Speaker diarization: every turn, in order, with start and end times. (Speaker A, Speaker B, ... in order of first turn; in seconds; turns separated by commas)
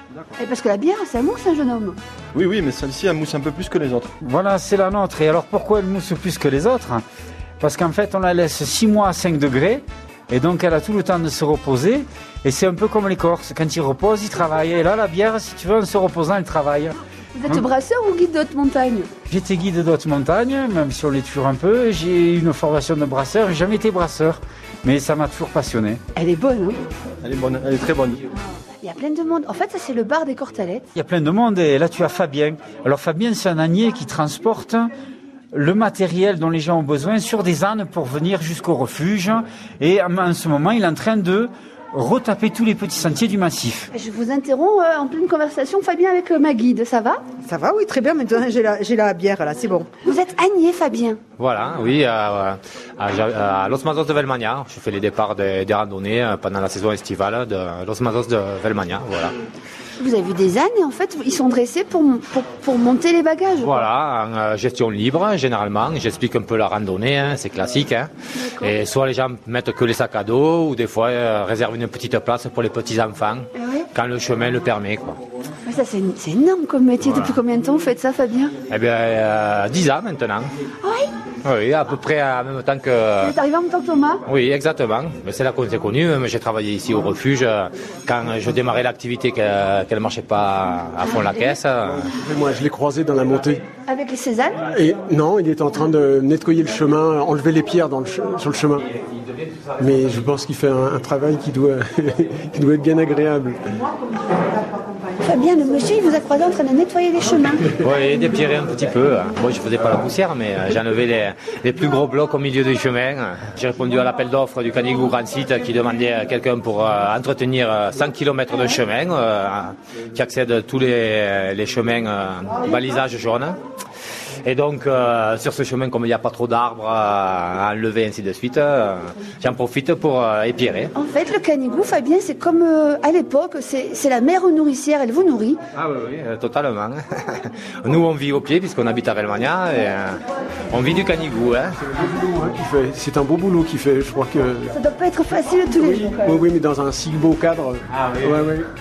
Speaker A: 0.4-2.0, Speaker B: 2.3-4.1, Speaker C: 4.2-7.0, Speaker C: 7.6-17.0, Speaker A: 17.4-19.1, Speaker C: 19.3-26.0, Speaker A: 26.1-26.8, Speaker B: 27.2-28.2, Speaker A: 28.8-30.9, Speaker C: 30.9-34.9, Speaker C: 35.5-43.9, Speaker A: 43.9-47.2, Speaker D: 47.4-50.0, Speaker A: 50.0-51.2, Speaker E: 51.4-59.3, Speaker A: 60.0-63.9, Speaker E: 63.6-75.2, Speaker A: 68.3-68.8, Speaker A: 73.6-73.9, Speaker A: 75.7-78.5, Speaker E: 77.0-77.4, Speaker E: 78.7-80.5, Speaker A: 80.8-81.1, Speaker E: 81.4-83.3, Speaker A: 83.2-84.2, Speaker E: 84.3-92.1, Speaker F: 92.1-93.6, Speaker A: 93.9-94.6, Speaker F: 94.7-98.9, Speaker F: 99.8-103.6, Speaker D: 103.9-105.1, Speaker A: 105.2-107.7, Speaker E: 107.8-123.6, Speaker E: 124.5-130.9, Speaker A: 130.9-135.6, Speaker E: 135.8-141.8, Speaker F: 141.9-144.7, Speaker A: 144.7-146.4, Speaker F: 146.1-148.7, Speaker E: 148.0-148.4